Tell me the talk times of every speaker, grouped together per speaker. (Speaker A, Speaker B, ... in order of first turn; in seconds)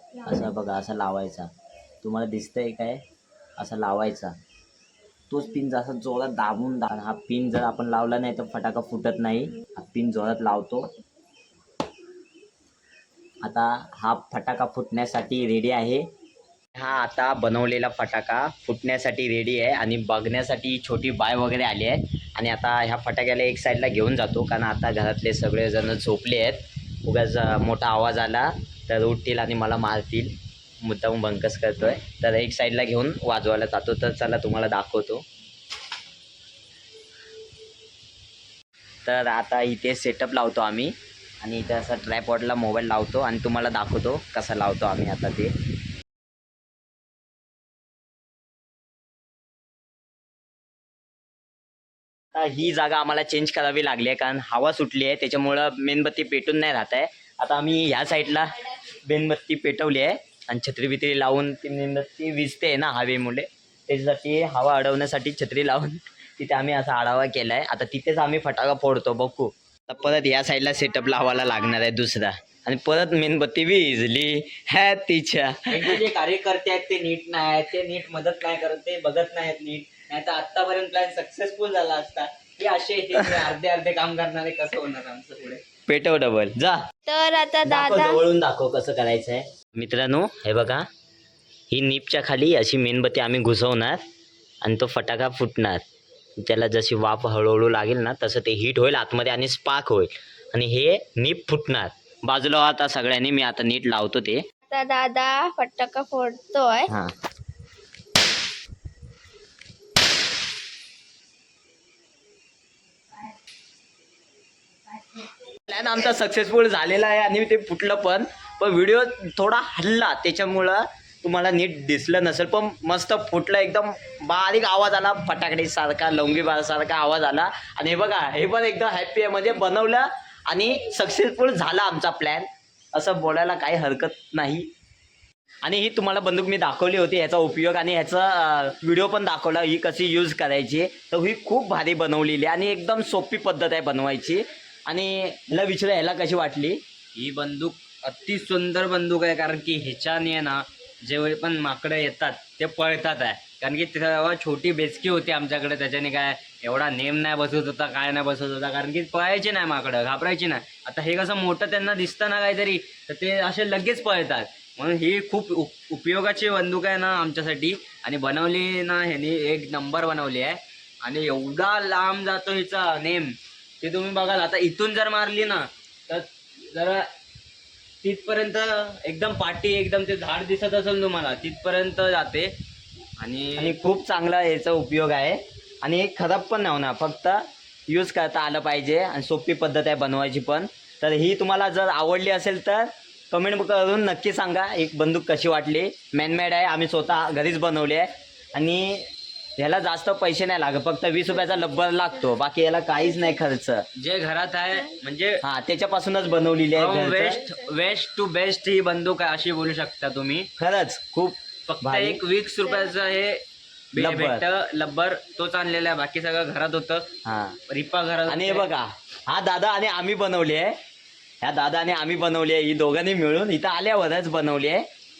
Speaker A: 0.2-1.5, 2.0-3.0, 3.6-4.3, 5.3-10.9, 13.4-16.1, 16.8-35.2, 39.0-45.5, 52.3-76.0, 83.2-83.5, 85.9-86.8, 87.6-90.9, 91.7-94.0, 94.6-95.8, 96.4-104.4, 115.6-134.7, 135.6-146.8, 183.6-203.8, 205.4-207.4, 210.6-212.2, 214.0-214.4, 217.2-217.6, 218.3-220.8, 221.4-224.8
Speaker B: 75.7-85.6, 147.2-177.1, 178.0-182.6, 183.2-183.8, 204.0-205.4, 206.8-210.5, 211.7-217.1, 217.7-218.7
Speaker C: 87.1-88.2, 104.7-106.9